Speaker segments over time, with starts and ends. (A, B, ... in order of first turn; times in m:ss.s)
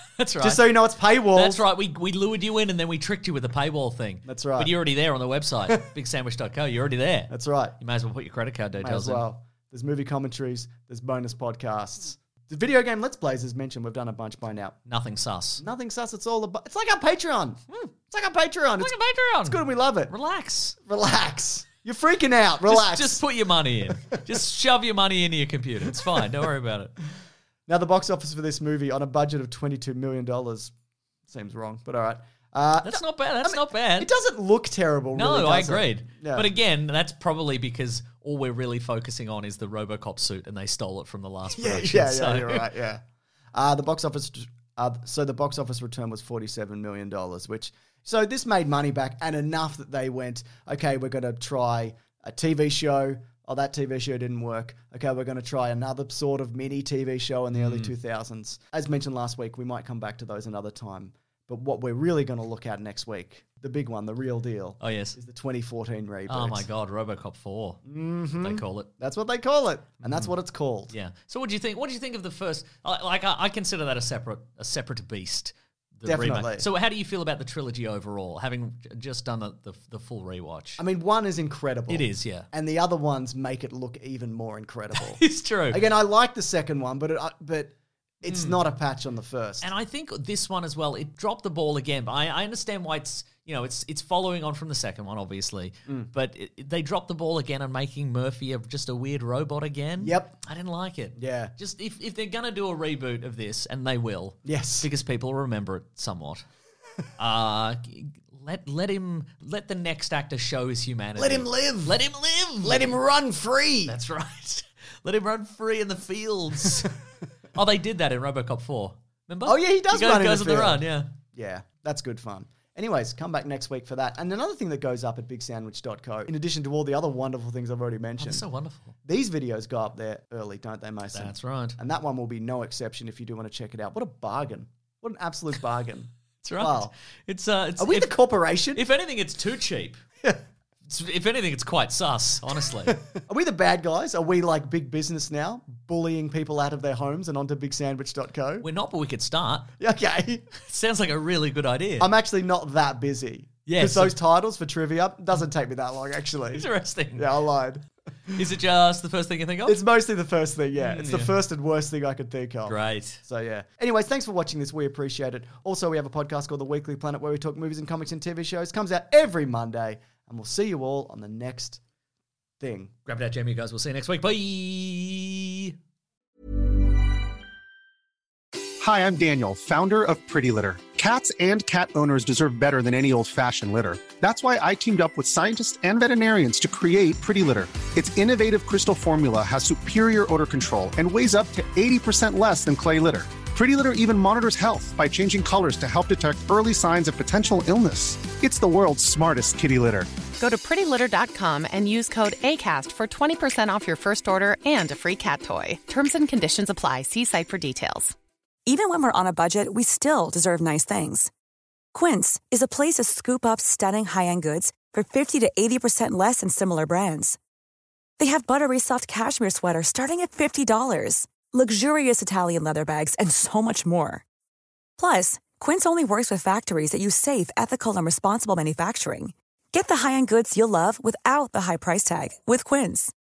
0:00.2-0:00.8 A
0:00.4-0:01.6 B
0:01.3-0:09.2 A
0:04.3-0:04.7 B
0:07.3-0:07.8 B
0:08.8-0:14.8 B
0:14.9-0:15.6 A
0:15.6-0:20.1 B
0:18.8-0:20.8 A
0:20.8-0:23.2 B
0:22.6-0:26.9 A
0:25.9-0:26.2 B
0:27.7-0:30.7 B
0:31.3-0:36.5 B
0:32.8-0:34.1 A
0:35.2-0:42.7 A
0:41.5-0:43.0 B
0:43.5-1:06.7 B
0:57.6-0:57.9 A
1:04.8-1:05.2 A
1:06.3-1:08.9 A
1:07.8-1:10.9 B
1:10.0-1:10.3 A
1:10.9-1:20.8 A
1:16.0-1:16.7 B
1:20.8-1:29.7 B
1:21.9-1:22.5 A
1:25.0-1:25.8 A
1:28.2-1:28.6 A
1:29.6-1:46.5 A
1:40.0-1:40.4 B
1:41.2-1:41.5 B
1:44.4-1:44.9 B
1:47.2-1:53.0 A
1:51.2-1:52.0 B
1:52.6-1:54.0 B
1:53.9-1:57.0 A
1:57.5-2:01.2 A
1:59.4-2:08.4 B
2:08.2-2:08.9 A
2:09.0-2:16.9 B
2:11.1-2:11.8 A
2:16.4-2:18.2 A
2:17.8-2:18.8 B
2:18.7-2:20.0 A
2:20.9-2:23.0 A
2:22.9-2:28.7 B
2:28.6-2:29.7 A
2:29.8-2:30.5 B
2:30.6-2:32.1 A
2:32.0-2:38.4 B
2:33.7-2:34.2 A
2:36.5-2:37.4 A
2:38.3-2:39.8 A
2:39.7-2:51.8 B
2:40.8-2:41.4 A
2:42.7-2:43.2 A
2:52.6-2:52.9 B
2:53.1-2:55.8 A
2:58.8-3:20.1 C
3:20.4-3:28.2 D
3:28.7-3:31.3 E
3:31.9-3:37.4 E
3:38.2-3:44.2 E
3:45.0-3:53.1 E